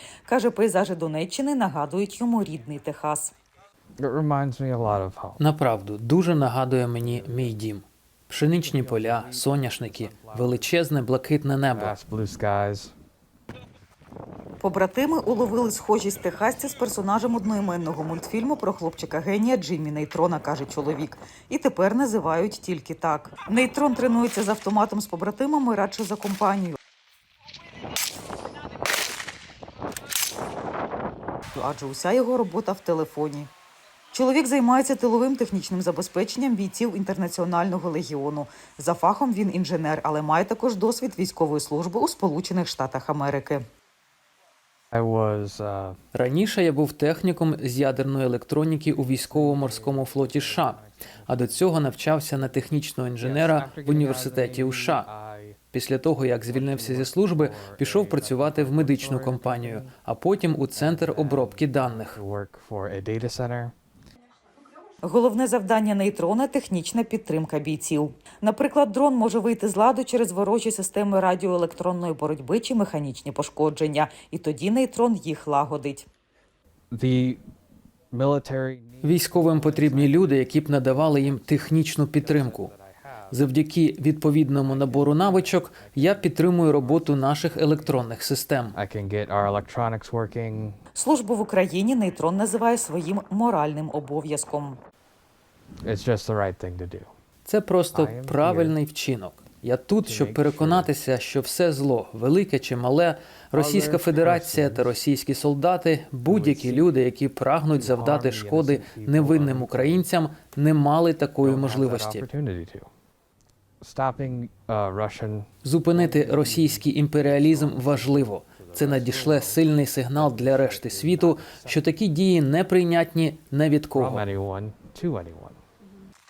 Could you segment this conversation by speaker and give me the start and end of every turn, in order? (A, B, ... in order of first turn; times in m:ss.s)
0:00.3-0:03.3 A
0:04.0-0:05.4 B
0:05.4-0:11.9 C
0:07.0-0:07.6 B
0:08.4-0:10.7 B
0:11.8-0:13.0 B
0:14.6-0:26.8 A
0:31.6-0:33.5 A
0:34.1-0:43.6 A
0:44.9-0:46.0 B
0:46.1-0:55.1 C
0:49.0-0:51.7 B
0:53.2-0:55.6 B
0:55.7-1:02.2 C
0:56.5-0:59.9 B
1:00.8-1:03.7 B
1:05.0-1:16.1 A
1:16.9-1:17.4 B
1:18.1-1:23.5 B
1:19.0-1:22.7 C
1:23.3-1:28.8 C
1:24.6-1:28.1 B
1:28.7-1:30.8 B
1:31.0-1:34.8 A
1:35.8-1:37.1 B
1:37.5-1:52.3 C
1:37.9-1:38.8 B
1:40.0-1:40.9 B
1:43.5-1:45.0 B
1:46.3-1:46.9 B
1:47.7-1:50.1 B
1:51.4-1:52.9 B
1:53.8-2:01.9 B
1:55.6-2:04.3 C
2:03.9-2:05.6 B